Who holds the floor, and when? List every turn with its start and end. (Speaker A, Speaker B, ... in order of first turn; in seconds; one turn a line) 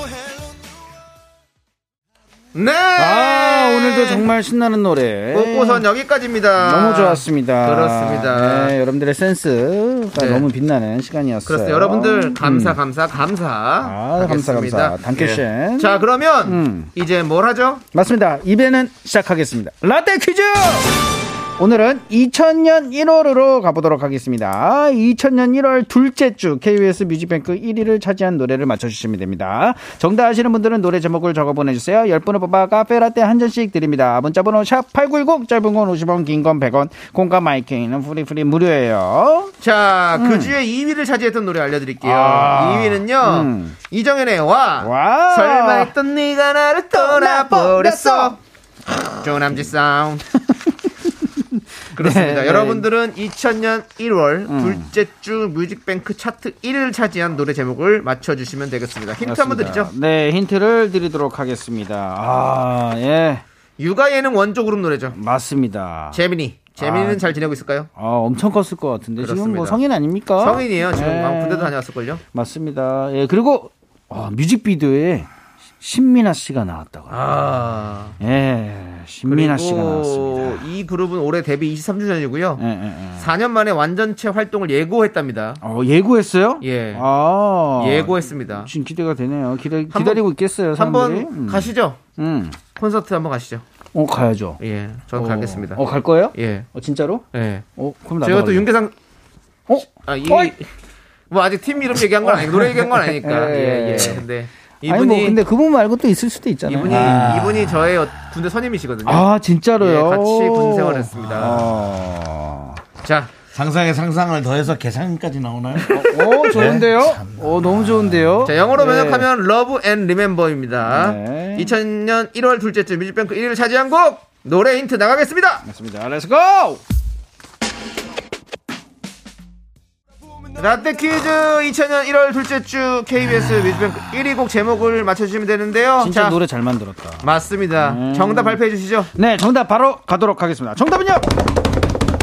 Speaker A: 2.5-4.3
Speaker B: 3.0-5.8
Speaker A: 5.3-8.7
Speaker B: 6.6-12.8
Speaker A: 10.1-10.5
Speaker A: 11.4-17.8
Speaker B: 13.8-16.9
Speaker B: 17.9-21.0
Speaker B: 21.6-39.5
Speaker A: 39.6-48.4
Speaker B: 40.2-40.5
Speaker B: 42.0-43.7
Speaker B: 44.8-45.9
Speaker B: 46.9-48.4
Speaker A: 49.2-50.2
Speaker B: 51.0-52.9
Speaker A: 51.9-59.9
Speaker B: 54.5-54.8
Speaker B: 59.2-63.4
Speaker A: 63.8-65.2
Speaker B: 65.1-66.2
Speaker A: 66.1-67.9
Speaker B: 66.8-67.3
Speaker B: 68.0-71.7
Speaker A: 69.2-69.8
Speaker A: 70.4-72.2
Speaker B: 72.3-75.3
Speaker B: 75.8-77.3
Speaker A: 77.1-78.2
Speaker B: 78.2-80.6
Speaker A: 79.2-82.6
Speaker B: 82.6-83.2
Speaker A: 83.2-85.6
Speaker B: 85.6-92.6
Speaker A: 86.6-87.0
Speaker A: 87.7-88.7
Speaker A: 89.9-92.0
Speaker A: 92.8-93.6
Speaker B: 93.9-94.6
Speaker A: 94.6-96.7
Speaker B: 95.1-97.2
Speaker A: 97.3-97.6
Speaker B: 97.8-98.7
Speaker A: 98.2-98.9
Speaker B: 99.7-100.5
Speaker A: 99.8-100.7
Speaker A: 101.3-105.4
Speaker B: 102.2-104.2
Speaker B: 104.8-107.4
Speaker A: 106.7-109.3
Speaker C: 106.8-108.0
Speaker B: 109.0-112.8
Speaker A: 109.8-111.7
Speaker A: 113.0-113.3
Speaker C: 113.5-118.5
Speaker B: 115.9-119.3
Speaker A: 116.2-116.7
Speaker A: 118.4-125.6
Speaker B: 120.9-121.7
Speaker B: 125.6-126.8
Speaker A: 130.5-136.4
Speaker B: 136.0-137.2
Speaker A: 137.2-139.1
Speaker B: 137.8-138.6
Speaker B: 139.1-141.3